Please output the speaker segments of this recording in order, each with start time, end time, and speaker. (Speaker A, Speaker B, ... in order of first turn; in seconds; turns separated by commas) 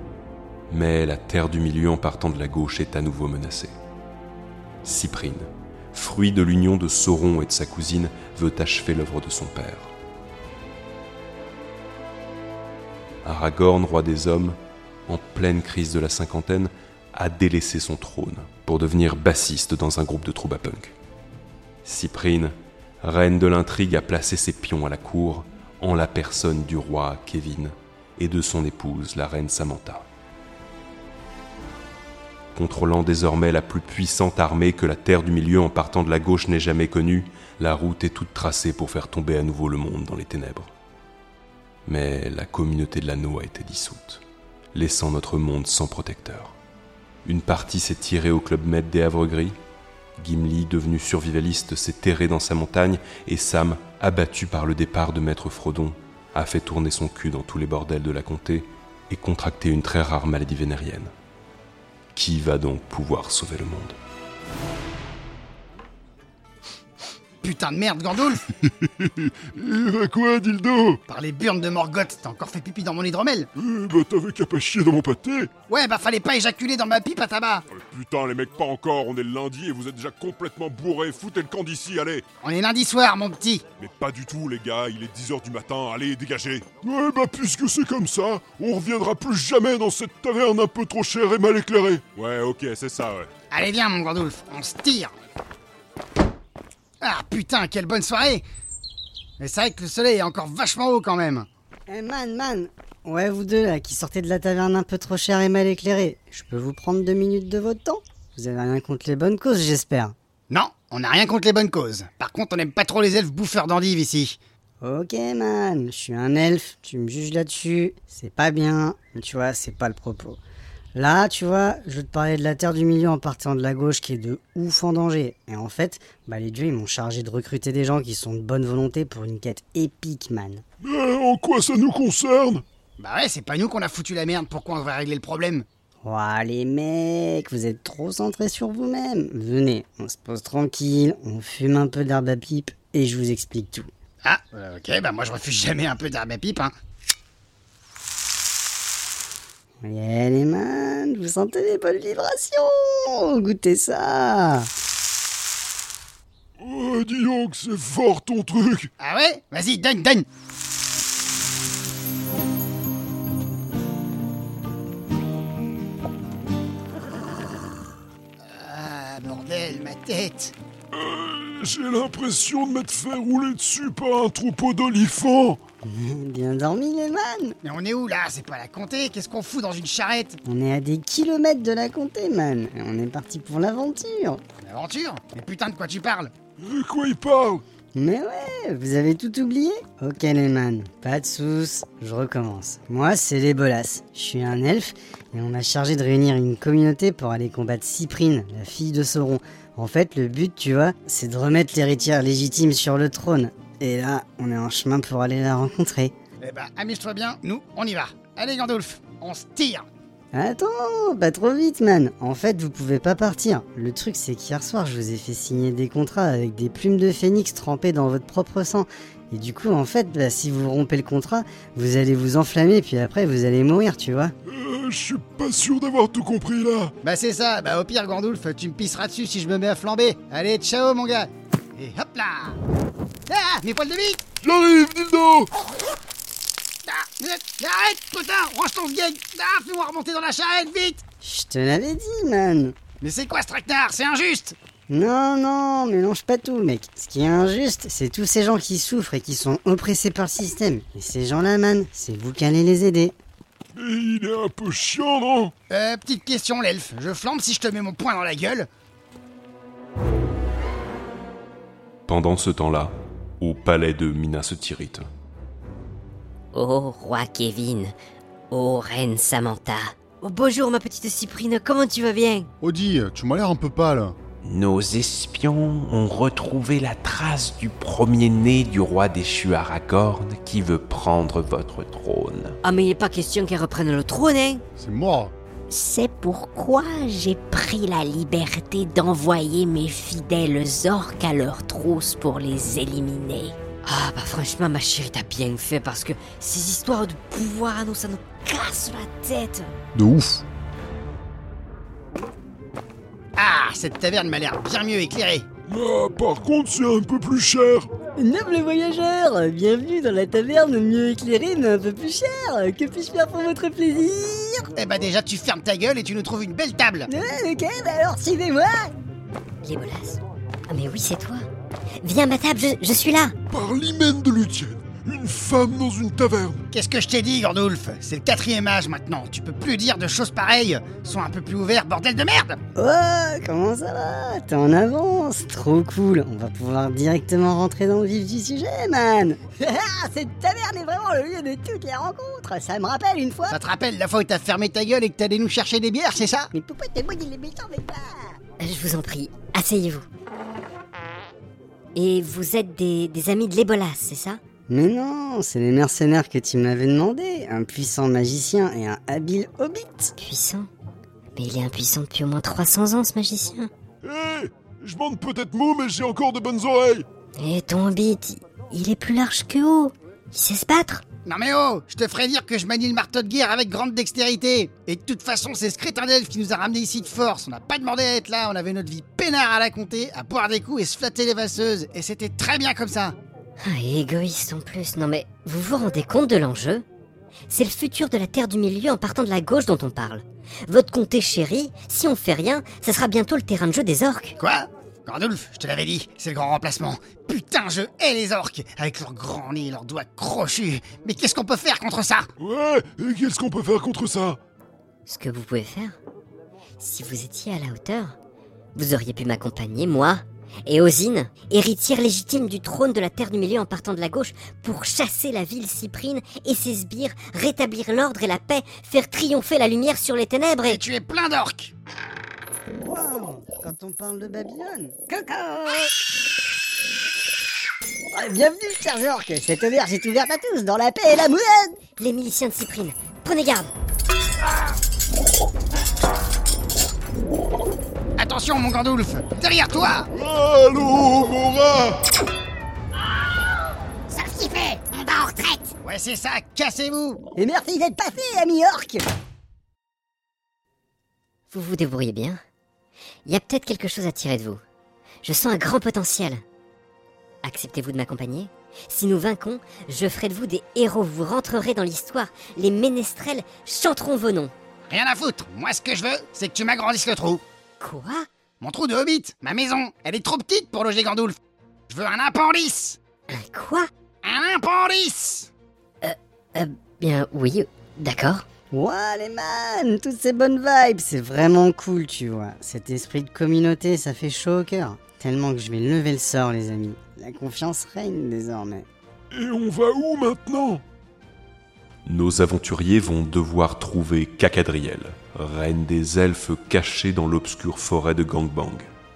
Speaker A: 0.7-3.8, Speaker A: 4.8-9.9, Speaker A: 13.2-20.9, Speaker A: 21.8-30.1, Speaker A: 32.5-40.7, Speaker A: 41.9-44.2, Speaker A: 44.7-46.5, Speaker A: 47.2-49.6, Speaker A: 50.2-61.1, Speaker A: 62.1-64.0, Speaker B: 67.4-68.4, Speaker C: 68.7-71.0, Speaker B: 71.1-73.5, Speaker C: 73.6-75.5, Speaker B: 75.7-77.7, Speaker C: 77.7-82.2, Speaker B: 82.4-83.7, Speaker C: 83.8-93.3, Speaker B: 93.5-95.1, Speaker B: 97.0-98.4, Speaker B: 99.4-101.5, Speaker D: 101.9-110.2, Speaker B: 110.5-114.4, Speaker D: 114.8-120.4, Speaker D: 121.0-130.6, Speaker C: 130.8-132.6, Speaker B: 133.0-135.7, Speaker D: 136.0-143.9, Speaker B: 144.2-146.7, Speaker D: 149.8-154.7, Speaker C: 156.6-158.9, Speaker B: 159.0-160.3, Speaker B: 168.5-170.5, Speaker C: 170.9-175.6, Speaker D: 175.8-177.6, Speaker B: 177.6-180.4, Speaker D: 180.4-184.4, Speaker B: 184.6-186.3, Speaker C: 186.6-187.6, Speaker D: 187.9-206.1, Speaker B: 206.4-209.9, Speaker D: 210.3-224.3, Speaker C: 224.5-226.9, Speaker B: 227.0-232.6, Speaker B: 233.3-234.2, Speaker C: 234.4-235.5, Speaker B: 236.9-241.0, Speaker D: 241.2-242.8, Speaker B: 243.0-244.6, Speaker D: 244.9-253.2, Speaker C: 253.8-255.5, Speaker B: 255.7-258.7, Speaker A: 262.1-265.1, Speaker E: 266.6-267.7, Speaker E: 268.5-269.4, Speaker E: 270.2-272.5, Speaker F: 272.6-274.1, Speaker G: 274.4-282.6, Speaker E: 282.6-284.6, Speaker F: 284.8-285.3, Speaker E: 285.7-299.7, Speaker F: 299.9-300.4, Speaker B: 303.4-305.5, Speaker C: 305.7-307.9, Speaker D: 308.2-314.7, Speaker B: 314.8-317.1, Speaker D: 317.1-318.9, Speaker H: 319.6-321.4, Speaker H: 322.0-323.4, Speaker C: 323.5-326.6, Speaker B: 326.7-332.6, Speaker D: 332.8-343.6, Speaker B: 343.5-346.5, Speaker D: 346.5-348.4, Speaker H: 348.6-350.1, Speaker H: 351.9-354.4, Speaker D: 354.7-360.1, Speaker H: 360.2-360.7, Speaker H: 361.4-363.7, Speaker C: 364.0-367.1, Speaker H: 367.4-371.0, Speaker B: 371.3-383.2, Speaker H: 383.6-386.9, Speaker H: 387.5-394.4, Speaker B: 394.4-402.3, Speaker C: 402.4-404.4, Speaker H: 405.1-406.0, Speaker H: 406.8-408.2, Speaker H: 408.8-420.8, Speaker B: 420.6-421.7, Speaker D: 422.8-425.9, Speaker D: 428.1-431.8, Speaker H: 432.0-433.7, Speaker B: 438.2-440.1, Speaker C: 440.1-442.0, Speaker B: 444.1-447.2, Speaker D: 447.4-449.1, Speaker H: 451.5-452.4, Speaker H: 453.3-454.6, Speaker H: 455.2-456.4, Speaker H: 457.4-464.5, Speaker B: 464.9-467.4, Speaker H: 467.8-468.2, Speaker B: 468.6-471.4, Speaker B: 471.9-473.0, Speaker H: 473.3-473.9, Speaker B: 474.2-475.5, Speaker H: 476.0-478.4, Speaker D: 478.7-488.9, Speaker C: 489.3-490.8, Speaker A: 492.1-498.9